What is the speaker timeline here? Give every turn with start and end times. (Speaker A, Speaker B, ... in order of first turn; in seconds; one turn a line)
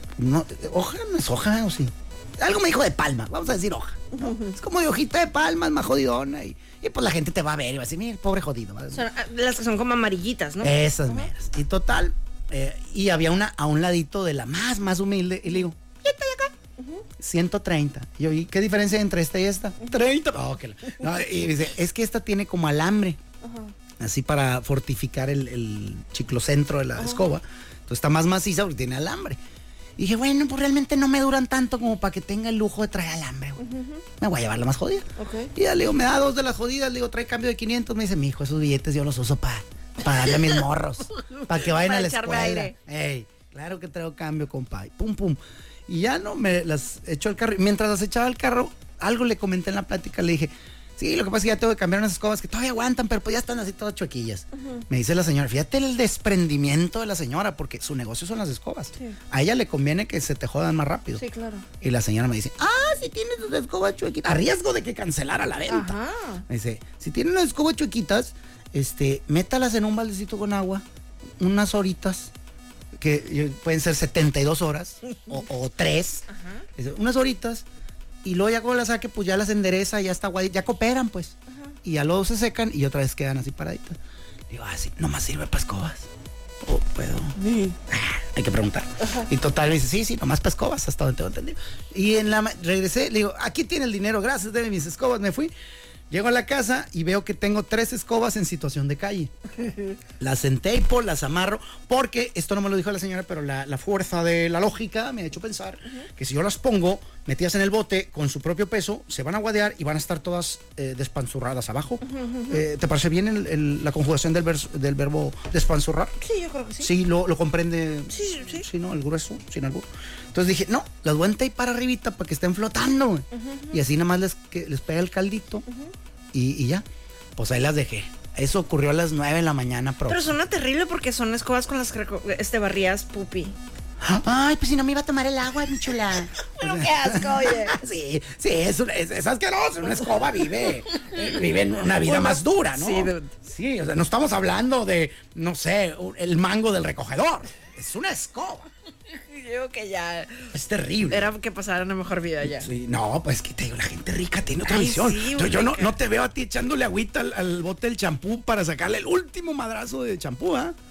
Speaker A: 0.2-9.0
Speaker B: 4.1-4.6
Speaker B: 8.9-11.3
Speaker A: 10.6-16.5
Speaker B: 16.8-17.0
Speaker A: 17.2-23.2
Speaker B: 23.4-23.7
Speaker A: 24.0-29.4
Speaker B: 27.0-27.3
Speaker A: 30.0-33.6
Speaker B: 33.6-34.0
Speaker A: 34.2-61.2
Speaker B: 35.2-35.5
Speaker B: 41.2-42.7
Speaker B: 54.5-54.9
Speaker B: 61.1-61.6
Speaker A: 61.8-70.8
Speaker B: 65.7-66.4
Speaker A: 71.4-72.3
Speaker A: 72.9-77.6
Speaker B: 76.3-76.7
Speaker A: 78.2-84.0
Speaker A: 84.5-86.1
Speaker A: 86.6-87.3
Speaker B: 87.4-87.8
Speaker A: 87.9-95.5
Speaker B: 89.0-89.3
Speaker A: 96.1-99.3
Speaker A: 100.2-116.1
Speaker B: 112.0-112.6
Speaker B: 116.2-116.9
Speaker A: 116.8-125.6
Speaker B: 118.1-118.7
Speaker B: 123.3-123.8
Speaker B: 125.7-125.9
Speaker A: 126.3-126.8
Speaker A: 127.3-130.3
Speaker B: 130.1-133.6
Speaker A: 134.0-148.7
Speaker B: 136.4-137.8
Speaker B: 140.6-141.4
Speaker B: 142.0-143.3
Speaker B: 149.1-150.5
Speaker A: 150.5-151.3
Speaker B: 151.1-152.7
Speaker A: 152.5-160.8
Speaker B: 154.6-155.9